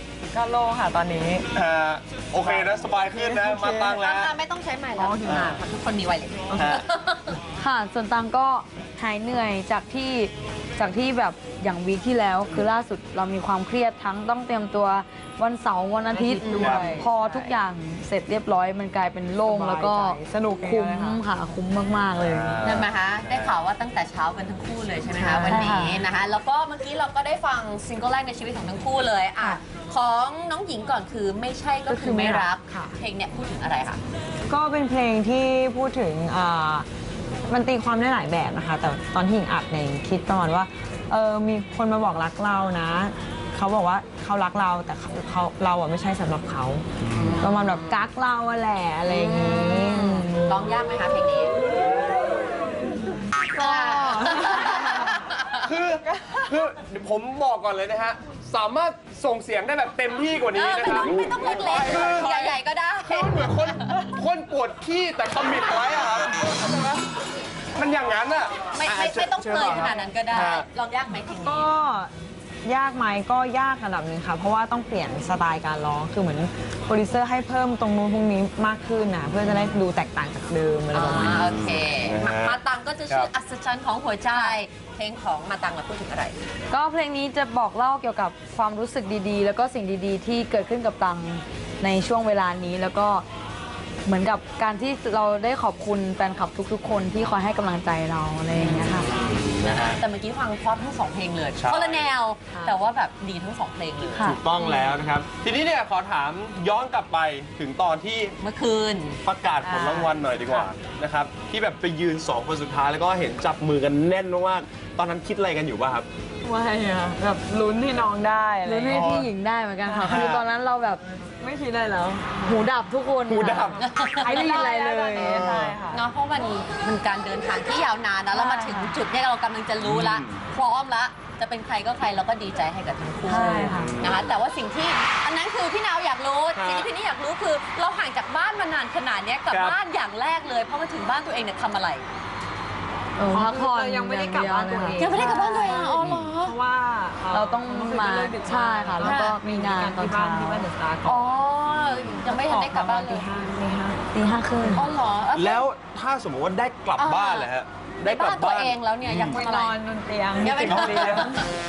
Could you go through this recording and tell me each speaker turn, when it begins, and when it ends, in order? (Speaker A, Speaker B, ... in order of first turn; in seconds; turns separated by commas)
Speaker A: 0.3-1.5, Speaker B: 1.5-4.3, Speaker A: 2.3-4.1, Speaker C: 3.9-7.4, Speaker A: 5.0-5.5, Speaker B: 5.3-5.6, Speaker A: 6.5-6.8, Speaker B: 6.6-6.8, Speaker D: 7.6-22.6, Speaker A: 16.1-17.6, Speaker C: 16.3-17.1, Speaker B: 16.6-16.9, Speaker A: 19.4-21.2, Speaker B: 22.2-23.6, Speaker C: 22.6-34.0, Speaker A: 25.2-25.6, Speaker D: 25.5-26.0, Speaker A: 31.9-33.0, Speaker A: 34.5-36.9, Speaker A: 37.5-46.9, Speaker C: 47.1-48.1, Speaker A: 47.4-50.7, Speaker C: 49.1-51.5, Speaker C: 53.5-55.6, Speaker A: 53.6-55.1, Speaker B: 55.6-67.0, Speaker C: 60.5-63.9, Speaker B: 67.8-70.7, Speaker C: 68.7-71.7, Speaker A: 71.4-72.1, Speaker A: 72.6-81.3, Speaker C: 80.9-86.4, Speaker B: 81.3-83.3, Speaker D: 84.3-84.6, Speaker D: 86.7-93.2, Speaker D: 94.1-99.1, Speaker C: 98.5-99.0, Speaker B: 99.1-100.0, Speaker C: 99.6-104.4, Speaker B: 101.6-102.1, Speaker A: 102.5-102.8, Speaker B: 104.2-108.3, Speaker C: 108.4-109.2, Speaker B: 109.2-116.1, Speaker A: 109.6-110.0, Speaker C: 109.7-110.1, Speaker A: 116.4-119.3, Speaker D: 118.6-121.0, Speaker B: 118.9-119.3, Speaker A: 119.9-120.3, Speaker B: 120.1-120.4, Speaker A: 121.4-122.4, Speaker D: 122.4-125.4, Speaker B: 123.3-123.8, Speaker C: 123.8-124.5, Speaker A: 124.2-126.0, Speaker C: 125.2-142.1, Speaker B: 125.2-125.8, Speaker D: 128.3-128.9, Speaker B: 129.8-130.4, Speaker D: 133.3-134.0, Speaker B: 133.7-134.3, Speaker B: 136.6-136.9, Speaker B: 139.5-139.8, Speaker D: 143.2-145.6, Speaker A: 143.2-151.4, Speaker C: 145.0-146.6, Speaker D: 147.3-151.4, Speaker C: 149.0-149.4, Speaker C: 151.2-153.3, Speaker A: 152.2-154.1, Speaker D: 154.1-154.9, Speaker C: 154.7-155.7, Speaker B: 155.3-159.4, Speaker C: 157.0-159.8, Speaker A: 159.3-161.4, Speaker C: 160.4-161.5, Speaker B: 160.5-161.3